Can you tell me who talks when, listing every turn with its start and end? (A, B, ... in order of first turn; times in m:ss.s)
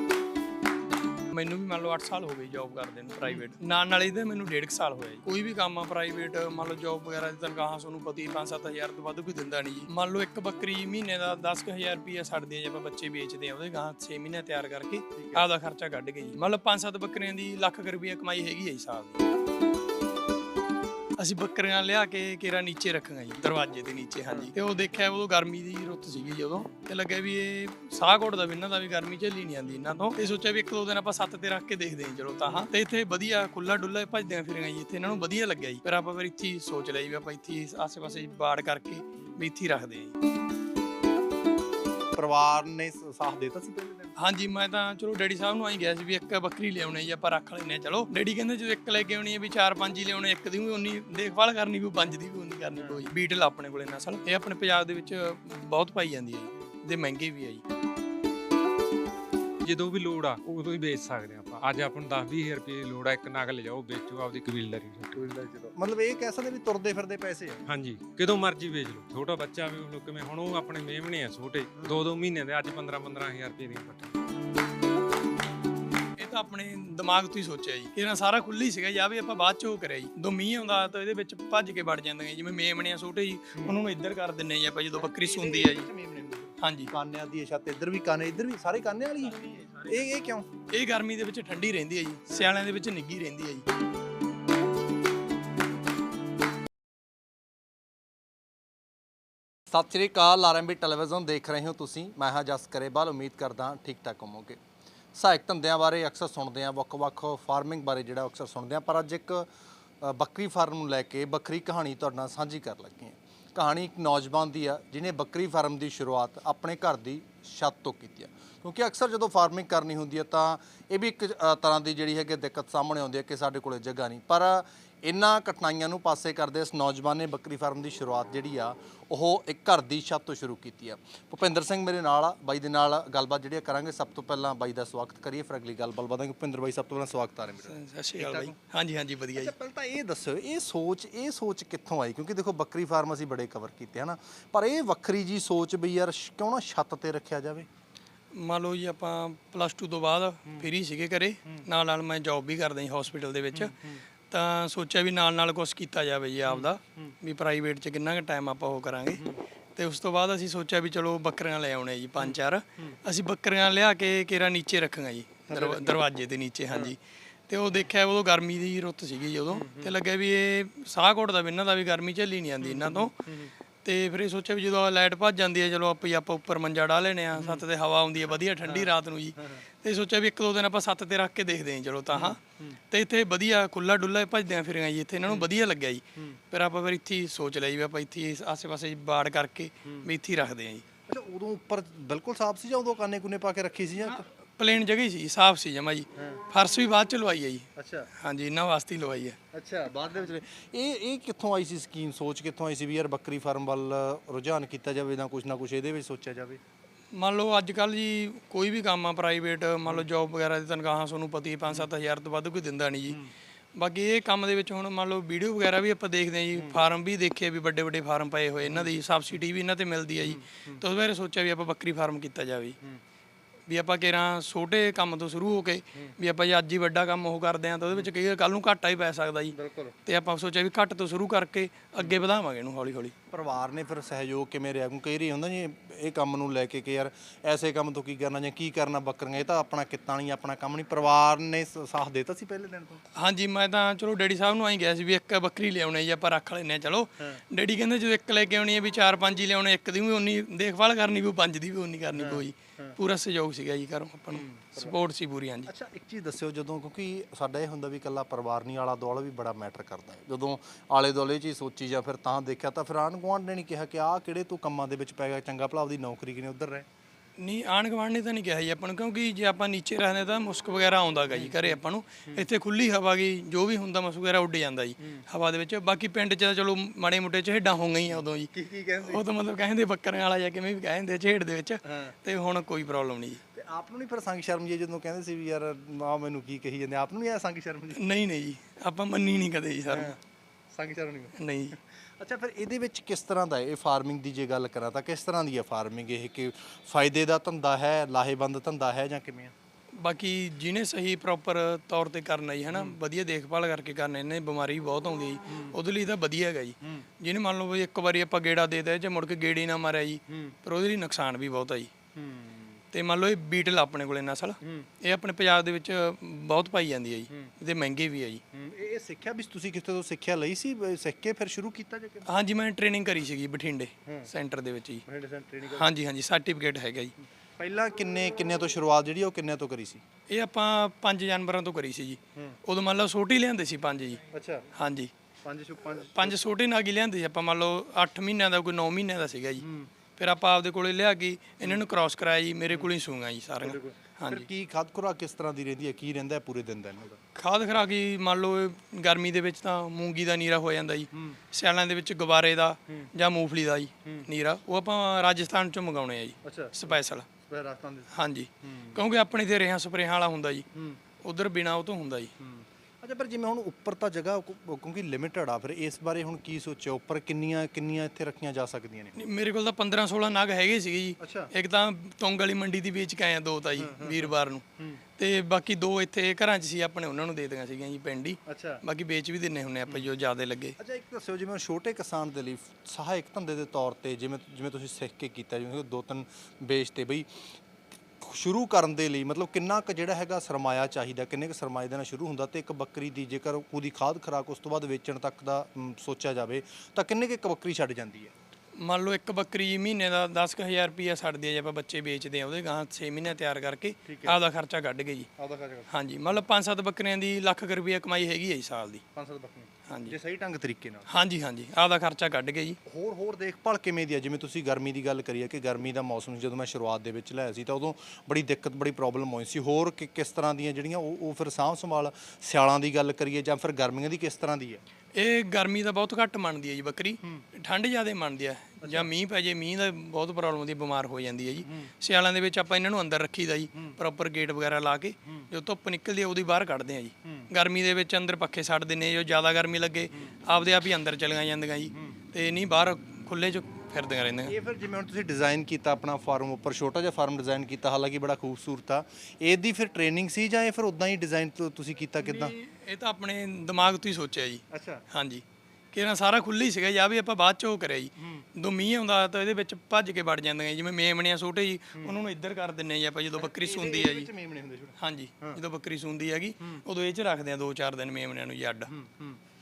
0:01.3-0:19.2 A
0:15.2-0:15.4 B
0:21.2-0:40.1 A
0:42.1-0:44.1 B
0:44.2-0:57.6 A
0:52.8-0:53.0 B
0:59.6-1:05.2 C
1:05.1-1:07.6 B
1:07.7-1:14.1 C
1:11.8-1:12.0 B
1:16.2-1:25.9 A
1:25.0-1:30.5 B
1:26.6-1:26.9 A
1:29.4-1:30.0 A
1:30.7-1:33.6 A
1:39.7-1:44.6 B
1:45.1-1:49.5 B
1:50.0-2:18.6 B
2:17.7-2:19.5 A
2:19.3-2:27.7 B
2:28.3-2:33.8 A
2:33.5-2:34.0 B
2:34.3-2:53.3 A
2:36.4-2:37.1 B
2:42.2-2:43.0 B
2:45.5-2:46.0 B
2:49.5-2:49.9 B
2:52.6-2:53.5 B
2:53.8-3:10.8 A
2:57.4-2:57.6 B
2:58.6-2:59.6 B
3:02.1-3:02.8 B
3:11.1-3:14.2 B
3:14.1-3:19.4 A
3:16.2-3:16.4 B
3:17.8-3:18.1 B
3:19.5-3:26.6 B
3:27.1-3:33.2 A
3:33.8-3:42.8 A
3:36.6-3:36.8 B
3:40.2-3:40.8 B
3:43.7-3:53.1 A
3:49.5-3:50.0 B
3:53.3-4:03.0 B
4:03.1-4:15.7 A
4:12.1-4:13.0 B
4:14.3-4:15.0 B
4:15.6-4:26.8 B
4:27.4-4:38.5 A
4:31.3-4:32.5 B
4:35.0-4:35.2 B
4:38.5-4:39.2 B
4:39.0-4:43.4 A
4:41.8-4:42.1 B
4:43.5-4:48.0 B
4:47.9-4:50.1 A
4:49.9-4:50.2 B
4:50.7-4:59.5 B
4:51.4-4:51.8 A
5:00.0-5:11.9 A
5:05.5-5:05.8 B
5:10.3-5:10.6 B
5:12.1-5:12.8 B
5:12.9-5:18.4 A
5:14.6-5:14.9 B
5:18.5-5:22.3 B
5:22.2-5:25.0 A
5:25.0-5:25.9 B
5:25.7-5:27.1 A
5:27.6-5:30.0 B
5:30.3-5:34.2 A
5:34.3-5:34.7 B
5:34.7-5:35.1 A
5:35.4-5:36.4 B
5:36.1-5:44.5 A
5:39.6-5:39.9 B
5:43.6-5:47.2 B
5:47.3-5:57.3 A
5:56.4-5:58.1 B
5:58.1-6:00.7 A
5:58.6-5:59.0 B
6:01.2-6:02.3 A
6:02.4-6:09.1 B
6:09.2-6:14.6 A
6:11.2-6:11.5 B
6:13.8-6:15.0 B
6:15.2-6:20.8 A
6:18.5-6:18.8 B
6:20.8-6:27.4 B
6:28.2-6:38.3 B
6:38.8-6:45.3 A
6:44.0-6:44.4 B
6:45.4-6:46.4 B
6:45.9-6:49.0 A
6:49.1-6:51.1 B
6:49.9-6:50.1 A
6:51.1-6:52.8 A
6:52.8-7:04.8 B
7:05.1-7:24.5 A
7:08.8-7:09.1 B
7:11.6-7:11.9 B
7:17.2-7:17.5 B
7:24.5-7:32.5 B
7:32.2-7:44.3 A
7:34.7-7:35.0 B
7:38.2-7:38.4 B
7:43.4-7:45.6 B
7:45.0-7:48.9 A
7:48.9-7:49.4 B